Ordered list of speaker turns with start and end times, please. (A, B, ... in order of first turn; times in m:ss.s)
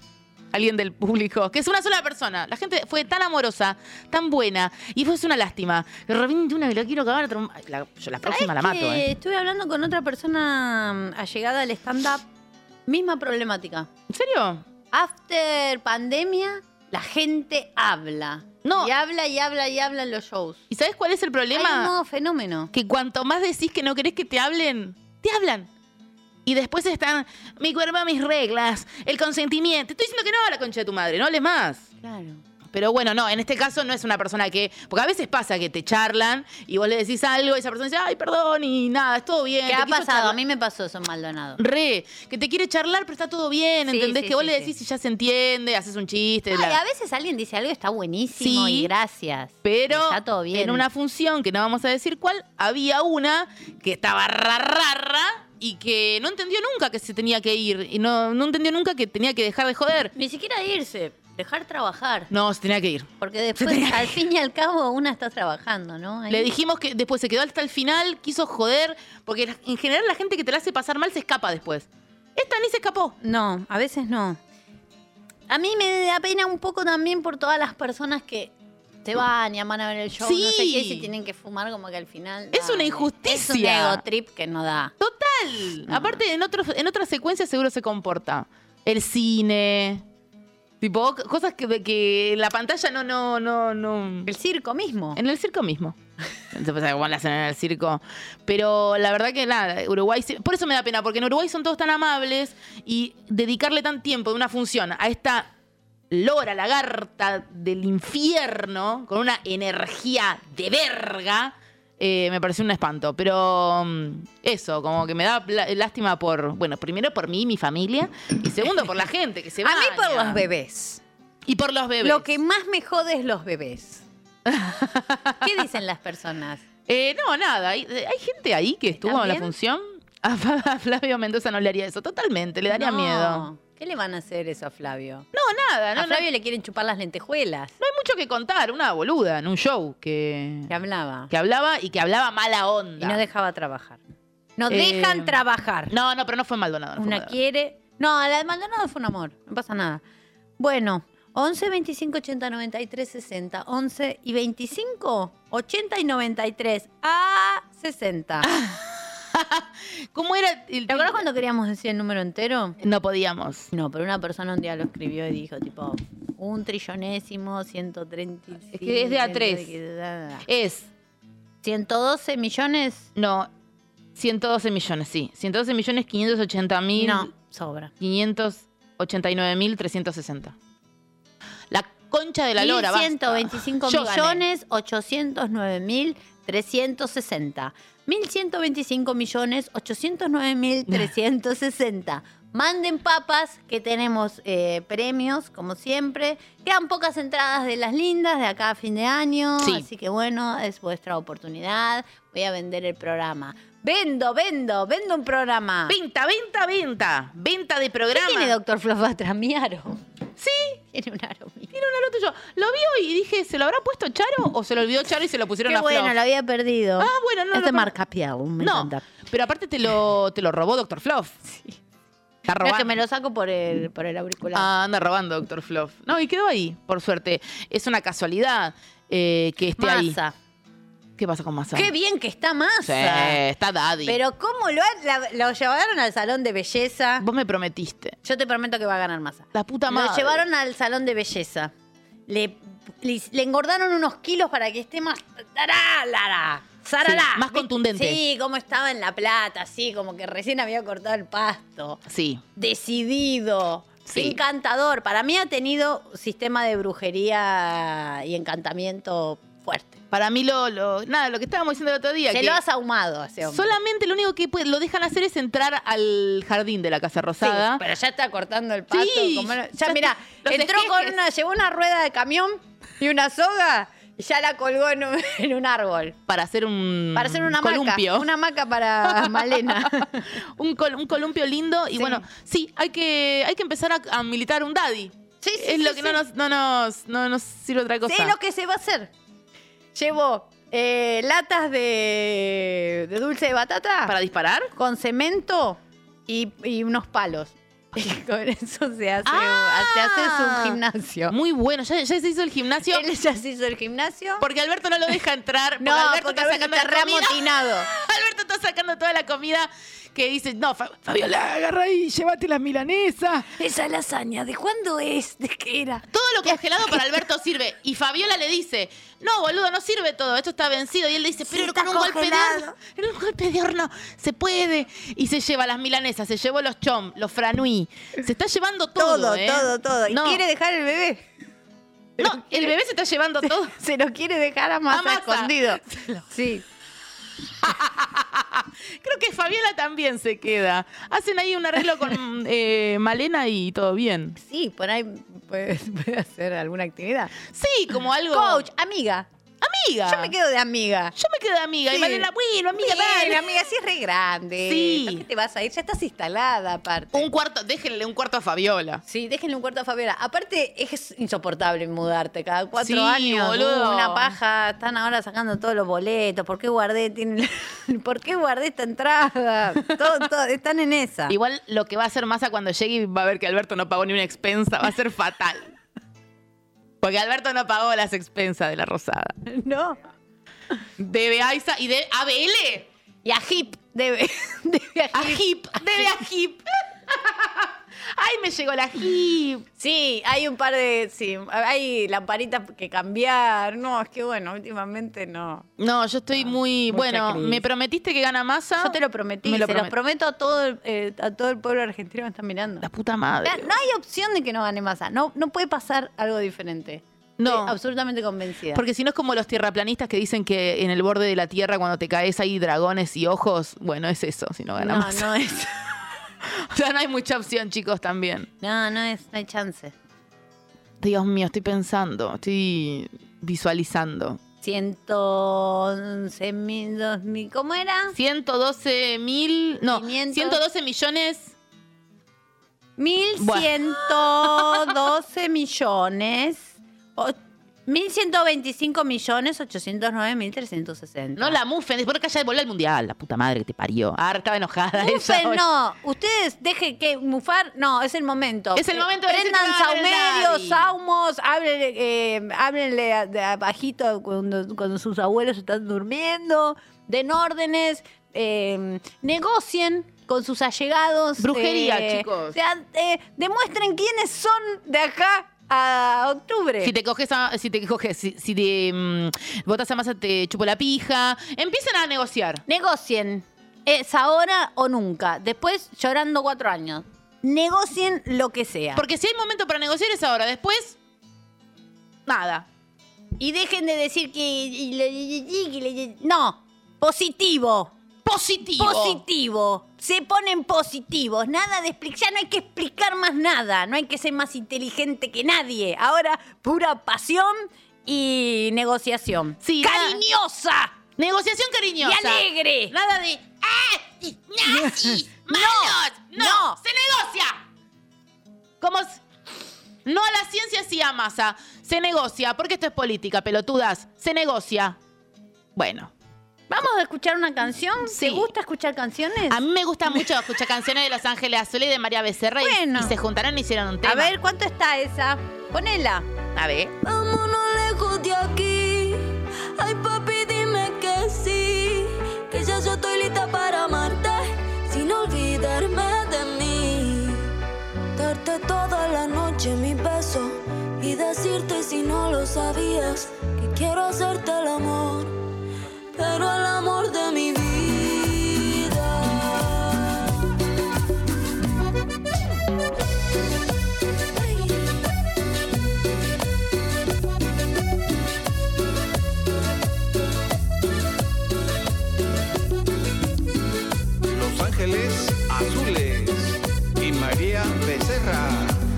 0:00.5-0:09.0 A
0:08.2-0:12.2 B
0:12.9-0:13.9 B
0:14.1-0:14.6 A
0:14.9-0:20.6 B
0:18.6-0:18.9 A
0:20.7-0:21.9 A
0:21.5-0:22.7 B
0:22.7-0:25.7 A
0:26.4-0:31.9 A
0:32.0-0:32.4 B
0:32.7-0:40.4 A
0:39.7-0:41.6 B
0:41.6-0:46.8 A
0:43.9-0:44.7 B
0:46.5-0:50.8 B
0:48.4-0:48.9 A
0:49.6-1:00.1 A
1:00.1-1:02.3 B
1:02.3-1:04.2 A
1:03.2-1:06.5 B
1:06.3-1:13.2 A
1:13.2-1:14.4 B
1:15.5-1:18.5 B
1:19.0-1:24.9 B
1:20.2-1:21.1 A
1:22.5-1:24.0 A
1:25.0-1:30.0 A
1:25.9-1:26.2 B
1:30.8-1:34.3 A
1:34.2-1:35.2 B
1:35.1-1:36.0 A
1:36.5-1:45.5 A
1:46.1-2:00.4 A
1:59.6-2:01.0 B
2:01.4-2:02.3 A
2:02.0-2:04.0 B
2:04.4-2:05.5 A
2:05.4-2:06.6 B
2:06.9-2:13.5 A
2:08.9-2:09.5 B
2:12.7-2:15.2 B
2:15.3-2:16.2 A
2:15.9-2:17.7 B
2:17.8-2:20.7 A
2:20.7-2:21.3 B
2:21.3-2:23.2 A
2:23.0-2:24.0 B
2:24.6-2:25.9 B
2:24.7-2:27.4 A
2:27.0-2:30.0 B
2:30.6-2:38.5 B
2:38.4-2:41.2 A
2:40.9-2:42.8 B
2:42.8-2:43.7 A
2:43.7-2:50.4 B
2:48.7-2:49.7 A
2:50.4-2:50.9 A
2:51.6-2:53.1 B
2:53.2-2:53.5 A
2:54.1-2:57.3 A
2:57.0-2:57.9 B
2:58.0-3:00.6 A
3:01.7-3:04.4 A
3:02.6-3:26.0 B
3:19.6-3:19.9 A
3:25.9-3:28.6 A
3:28.1-3:30.0 B
3:30.4-3:30.8 A
3:30.9-3:31.7 B
3:31.7-3:36.2 A
3:35.6-3:39.0 B
3:37.0-3:37.9 A
3:38.6-3:41.4 A
3:41.4-3:41.8 B
3:42.4-3:43.0 A
3:42.6-3:44.7 B
3:44.5-3:50.2 A
3:49.8-3:50.3 B
3:51.2-3:51.9 A
3:51.7-3:53.4 B
3:52.8-3:54.2 A
3:54.0-3:57.2 B
3:57.2-3:58.2 A
3:58.2-4:01.7 B
3:59.5-4:00.4 A
4:02.3-4:12.0 B
4:07.0-4:08.2 A
4:12.1-4:12.4 A
4:12.6-4:20.0 B
4:14.1-4:14.4 A
4:20.1-4:22.6 A
4:22.3-4:23.7 B
4:23.4-4:27.8 A
4:27.4-4:36.2 B
4:28.9-4:31.2 A
4:36.3-4:38.3 A
4:37.1-4:40.3 B
4:39.1-4:48.4 A
4:42.0-4:42.2 B
4:45.4-4:46.2 B
4:48.0-4:49.1 B
4:49.9-4:54.1 B
4:54.1-4:54.7 A
4:54.7-5:01.4 B
4:59.2-5:03.0 A
5:02.9-5:04.4 B
5:04.4-5:13.5 A
5:05.8-5:07.9 B
5:13.6-5:17.0 B
5:16.1-5:30.4 A
5:21.5-5:22.7 B
5:29.0-5:31.2 B
5:32.2-5:33.7 A
5:32.2-5:32.7 B
5:33.7-5:36.6 B
5:34.9-5:36.2 A
5:37.6-5:44.4 A
5:44.4-5:47.3 B
5:47.5-5:48.6 A
5:48.3-5:49.3 B
5:49.6-5:50.3 A
5:50.1-5:51.1 B
5:51.2-5:53.5 A
5:51.9-5:57.3 B
5:54.6-5:55.2 A
5:57.1-5:59.0 A
5:59.1-6:11.4 B
6:02.8-6:04.4 A
6:11.3-6:15.7 A
6:17.0-6:19.4 A
6:19.4-6:20.0 B
6:21.0-6:22.9 A
6:23.2-6:26.2 B
6:25.1-6:29.6 A
6:29.8-6:35.7 B
6:35.8-6:39.9 A
6:36.4-6:37.6 B
6:38.8-6:42.9 B
6:42.8-6:43.7 A
6:43.4-6:48.8 B
6:47.4-6:47.7 A
6:48.7-6:55.3 A
6:54.8-6:55.7 B
6:56.4-6:58.5 A
6:58.6-6:59.9 B
7:01.0-7:04.4 A
7:04.6-7:08.2 B
7:08.1-7:11.5 A
7:09.9-7:10.6 B
7:13.0-7:21.6 B
7:13.4-7:14.9 A
7:21.4-7:25.6 A
7:24.9-7:46.9 B
7:28.7-7:30.9 A
7:41.4-7:42.6 A
7:46.8-7:52.6 A
7:52.7-7:59.0 B
7:58.9-8:01.0 A
8:02.2-8:02.6 A
8:03.4-8:07.9 B
8:08.2-8:09.2 A
8:08.8-8:21.0 B
8:19.6-8:20.2 A
8:21.2-8:27.6 A
8:22.0-8:22.9 B
8:24.6-8:26.8 B
8:28.8-8:29.2 A
8:30.0-8:35.0 A
8:35.8-8:36.1 A
8:36.7-8:39.6 B
8:38.0-8:38.5 A
8:39.5-8:44.3 A
8:42.6-8:43.1 B
8:44.0-8:46.5 B
8:46.6-8:46.9 A
8:47.0-8:57.6 C
8:58.2-9:05.3 C
9:06.1-9:10.4 C
9:24.3-9:28.7 D